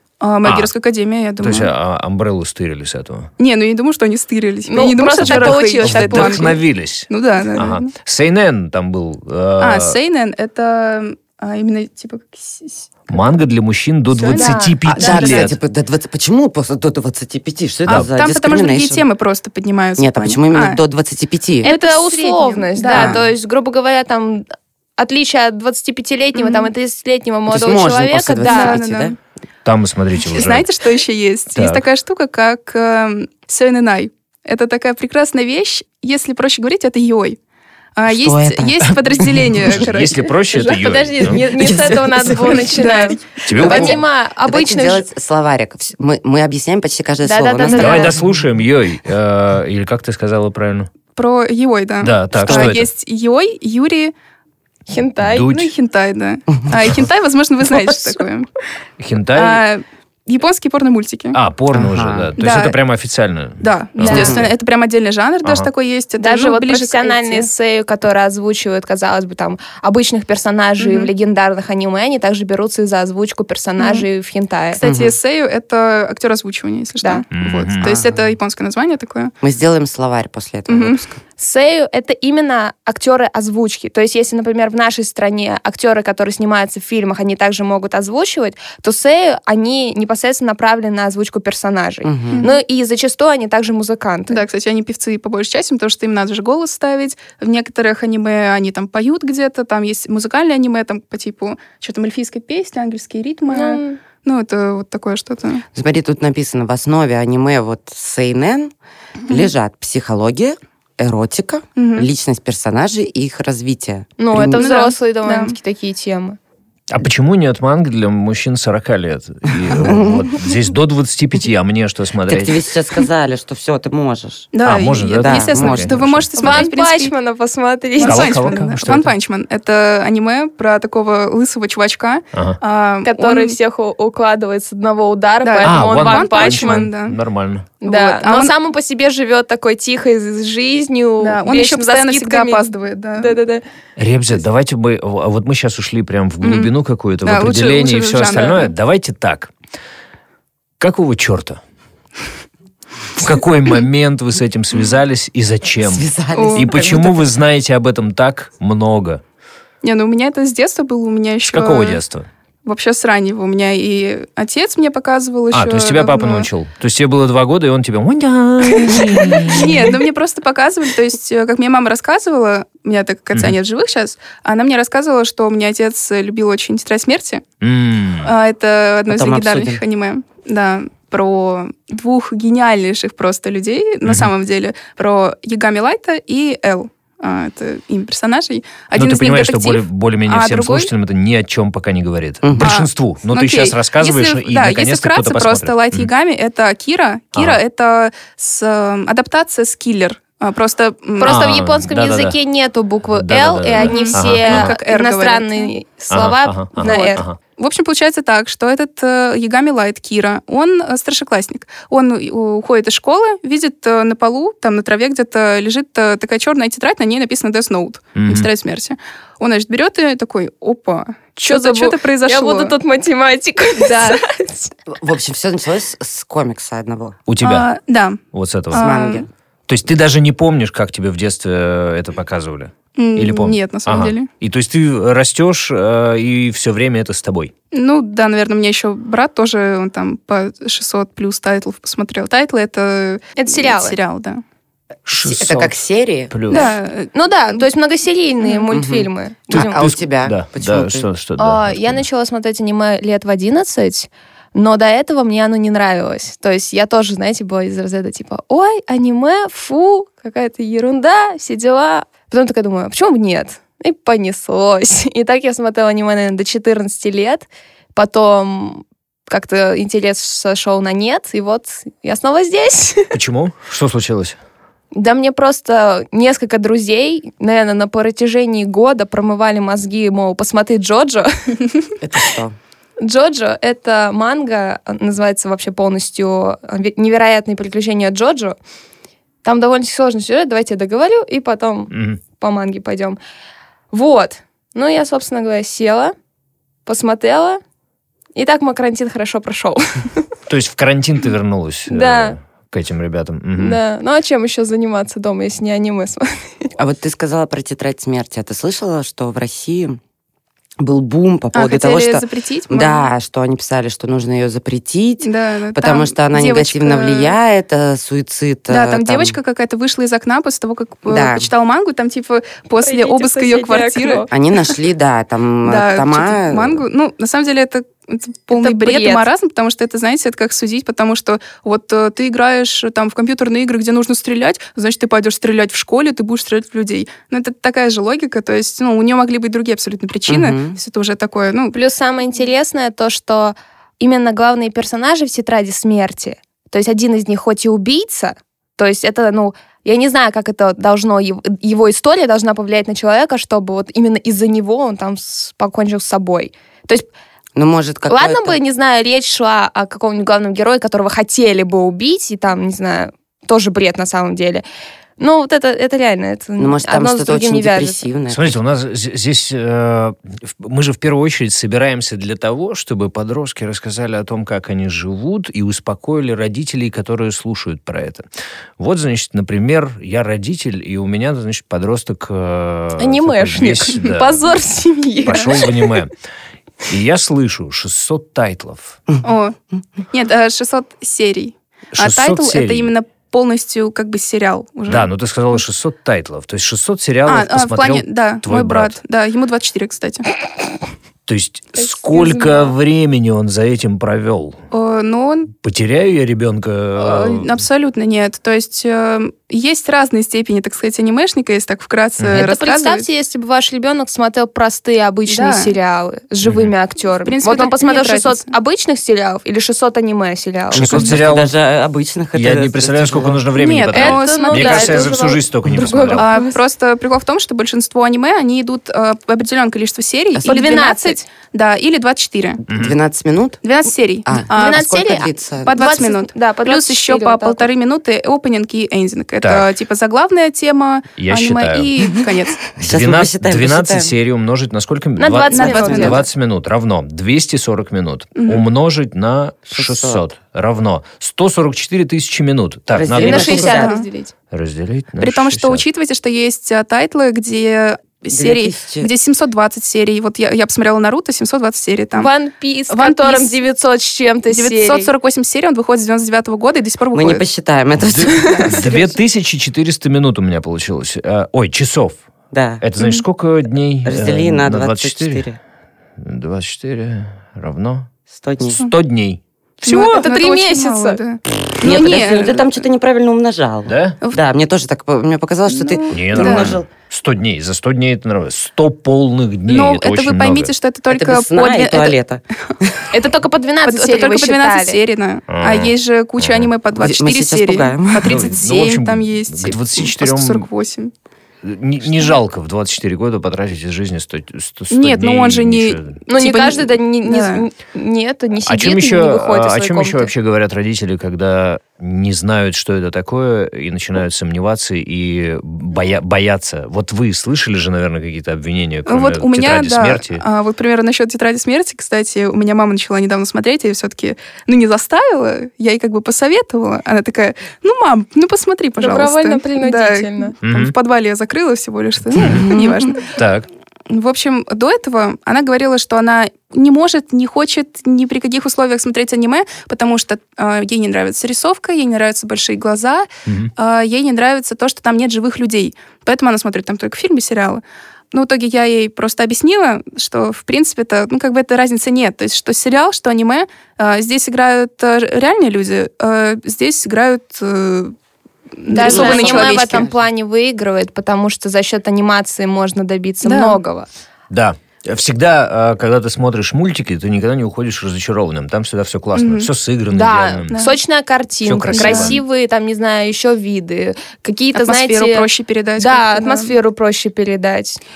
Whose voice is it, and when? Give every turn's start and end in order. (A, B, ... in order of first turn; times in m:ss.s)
0:00.2-0:01.7 A
0:00.4-0:00.7 B
0:01.4-0:03.3 B
0:03.4-0:07.9 A
0:04.7-0:06.6 C
0:05.2-0:10.0 B
0:09.6-0:13.0 A
0:13.1-0:15.6 B
0:14.2-0:15.5 A
0:14.3-0:14.8 C
0:14.8-0:19.1 D
0:17.9-0:20.8 A
0:20.0-0:21.7 D
0:21.6-0:23.2 A
0:21.6-0:24.5 C
0:22.9-0:23.2 D
0:25.0-0:28.8 C
0:26.3-0:26.7 A
0:27.5-0:29.2 D
0:28.4-0:29.2 A
0:29.6-0:30.7 B
0:30.3-0:37.4 A
0:31.6-0:31.8 B
0:38.0-0:40.3 A
0:38.1-0:39.8 D
0:39.7-0:41.5 B
0:40.5-0:45.0 C
0:41.4-0:42.8 D
0:41.6-0:43.4 A
0:43.4-0:44.0 B
0:43.5-0:48.2 D
0:47.2-0:48.2 C
0:47.7-0:48.0 A
0:47.8-0:50.9 B
0:51.2-0:54.1 A
0:52.0-0:52.9 B
0:52.4-0:52.7 D
0:54.9-0:55.5 C
0:55.2-0:55.7 B
0:55.5-0:58.5 A
0:59.0-0:59.6 B
0:59.3-1:01.4 A
1:01.3-1:04.4 B
1:01.7-1:02.3 D
1:02.4-1:02.8 A
1:03.6-1:07.5 A
1:04.0-1:04.4 C
1:04.1-1:04.5 D
1:05.4-1:05.7 B
1:06.2-1:14.8 C
1:10.8-1:11.1 A
1:13.8-1:14.1 A
1:14.7-1:19.3 A
1:14.8-1:15.2 D
1:17.3-1:17.9 B
1:17.8-1:18.3 D
1:19.4-1:21.2 D
1:20.7-1:21.0 A
1:21.4-1:34.4 C
1:32.0-1:32.4 D
1:32.3-1:32.6 A
1:34.3-1:45.6 A
1:43.5-1:44.0 C
1:45.7-1:48.7 D
1:49.3-1:54.6 D
1:51.8-1:52.1 A
1:54.2-1:56.4 C
1:54.5-1:55.6 A
1:56.9-2:02.6 B
1:59.7-2:00.4 D
2:02.3-2:04.5 D
2:04.5-2:07.1 A
2:04.6-2:06.7 B
2:05.2-2:06.0 D
2:06.4-2:08.6 C
2:08.0-2:13.6 A
2:08.0-2:09.1 B
2:12.3-2:12.6 B
2:13.0-2:16.9 C
2:15.4-2:17.2 A
2:15.6-2:17.7 B
2:17.8-2:23.6 C
2:17.9-2:18.5 A
2:21.2-2:23.4 A
2:24.0-2:29.5 B
2:26.4-2:26.7 A
2:27.2-2:28.7 A
2:30.8-2:31.6 B
2:33.2-2:39.2 B
2:35.8-2:37.2 D
2:36.4-2:36.8 A
2:39.8-2:42.0 A
2:41.4-2:42.3 B
2:42.6-2:46.5 A
2:45.5-2:50.0 B
2:48.7-2:57.4 A
2:57.6-2:58.3 B
2:58.2-3:10.9 A
2:59.1-2:59.8 D
3:08.9-3:16.1 B
3:12.4-3:12.7 D
3:12.6-3:21.5 A
3:17.3-3:17.6 B
3:21.2-3:27.2 C
3:21.2-3:22.4 B
3:23.1-3:24.7 B
3:23.7-3:25.7 A
3:26.1-3:27.4 B
3:26.8-3:42.8 A
3:38.2-3:38.5 B
3:41.5-3:44.7 C
3:43.8-3:44.1 A
3:44.9-3:47.2 D
3:47.3-3:47.7 B
3:47.4-3:49.2 A
3:48.3-3:48.9 B
3:48.7-3:49.3 D
3:49.7-3:57.5 B
3:53.0-3:54.3 A
3:57.7-4:04.4 A
4:03.4-4:04.0 C
4:05.1-4:05.8 B
4:05.2-4:06.3 D
4:06.3-4:06.7 B
4:06.5-4:07.7 A
4:06.5-4:09.9 C
4:08.7-4:11.1 D
4:09.5-4:12.0 B
4:11.4-4:33.2 C
4:33.1-4:34.4 B
4:34.9-4:41.9 C
4:42.0-4:42.6 D
4:43.0-4:48.6 C
4:49.4-4:53.2 C
4:51.9-4:52.2 B
4:53.9-4:56.2 C
4:56.9-4:57.6 C
4:58.4-5:00.2 C
5:00.5-5:03.8 B
5:01.9-5:02.4 C
5:03.6-5:06.7 C
5:06.8-5:10.0 D
5:10.8-5:19.4 D
5:11.5-5:13.1 A
5:15.2-5:17.4 A
5:18.7-5:24.7 A
5:21.1-5:21.5 D
5:22.8-5:24.3 C
5:24.3-5:26.8 D
5:25.7-5:41.8 A
5:28.5-5:29.3 C
5:40.3-5:40.8 D
5:41.7-5:57.1 C
5:57.6-5:58.6 D
5:58.1-6:04.6 C
6:05.2-6:08.0 C
6:06.6-6:08.6 D
6:08.3-6:18.2 B
6:18.8-6:24.5 B
6:23.0-6:25.9 C
6:25.2-6:26.1 B
6:26.9-6:29.0 B
6:29.2-6:29.6 A
6:30.1-6:35.1 A
6:31.9-6:32.9 B
6:34.9-6:39.0 B
6:37.3-6:40.2 A
6:41.3-6:44.6 B
6:41.8-6:42.7 C
6:44.7-6:45.5 A
6:45.6-6:47.6 B
6:47.0-6:53.1 A
6:52.2-6:52.5 B
6:52.4-7:01.1 C
6:55.3-6:55.8 A
6:56.4-6:56.7 B
6:57.2-6:58.5 A
7:00.7-7:01.5 B
7:00.8-7:03.4 D
7:02.3-7:06.3 B
7:03.6-7:05.4 A
7:03.9-7:06.6 C
7:06.1-7:12.6 A
7:10.3-7:10.6 D
7:10.4-7:11.2 C
7:12.7-7:13.6 D
7:12.7-7:13.0 B
7:13.6-7:14.9 A
7:14.2-7:16.0 D
7:14.5-7:17.7 C
7:15.6-7:22.6 A
7:19.4-7:19.7 B
7:21.2-7:21.9 B
7:22.2-7:24.2 D
7:22.8-7:33.8 B
7:25.2-7:26.2 C
7:25.5-7:26.2 A
7:25.8-7:26.2 D
7:28.4-7:28.6 A
7:29.7-7:30.2 D
7:32.9-7:34.0 D
7:33.2-7:34.3 C
7:33.5-7:34.1 A
7:34.5-7:35.8 B
7:35.2-7:42.3 A
7:38.3-7:39.1 D
7:42.2-7:45.1 C
7:42.9-7:43.6 A
7:44.5-7:47.4 A
7:47.1-7:49.1 D
7:48.0-7:52.2 B
7:48.3-7:48.8 C
7:52.5-7:52.8 D
7:52.8-7:55.5 B
7:54.0-7:55.6 D
7:56.2-7:58.1 B
7:58.3-7:58.8 D
7:58.8-8:00.3 B
7:59.8-8:02.8 A
8:00.2-8:01.2 C
8:01.8-8:06.9 D
8:03.9-8:04.2 B
8:05.7-8:06.7 A
8:06.1-8:10.7 B
8:09.7-8:12.2 A
8:11.1-8:13.1 D
8:13.1-8:15.0 C
8:13.8-8:21.1 A
8:15.5-8:16.7 B
8:17.0-8:18.5 D
8:18.3-8:20.7 B
8:21.6-8:26.2 B
8:24.9-8:27.7 A
8:26.3-8:30.3 C
8:28.6-8:40.4 B
8:39.1-8:53.3 A
8:49.0-8:50.6 C
8:50.6-8:50.9 B
8:52.4-8:52.7 B
8:52.4-8:53.0 D
8:53.3-8:53.7 B
8:54.1-9:18.2 A
9:03.5-9:03.7 B
9:18.8-9:20.1 A
9:18.9-9:24.1 C
9:18.9-9:20.2 D
9:23.4-9:23.8 A
9:24.5-9:30.8 B
9:29.4-9:29.7 A
9:30.1-9:35.5 C
9:30.7-9:31.0 A
9:31.6-9:32.4 B
9:31.9-9:32.4 A
9:34.8-9:36.8 A
9:36.0-9:38.0 C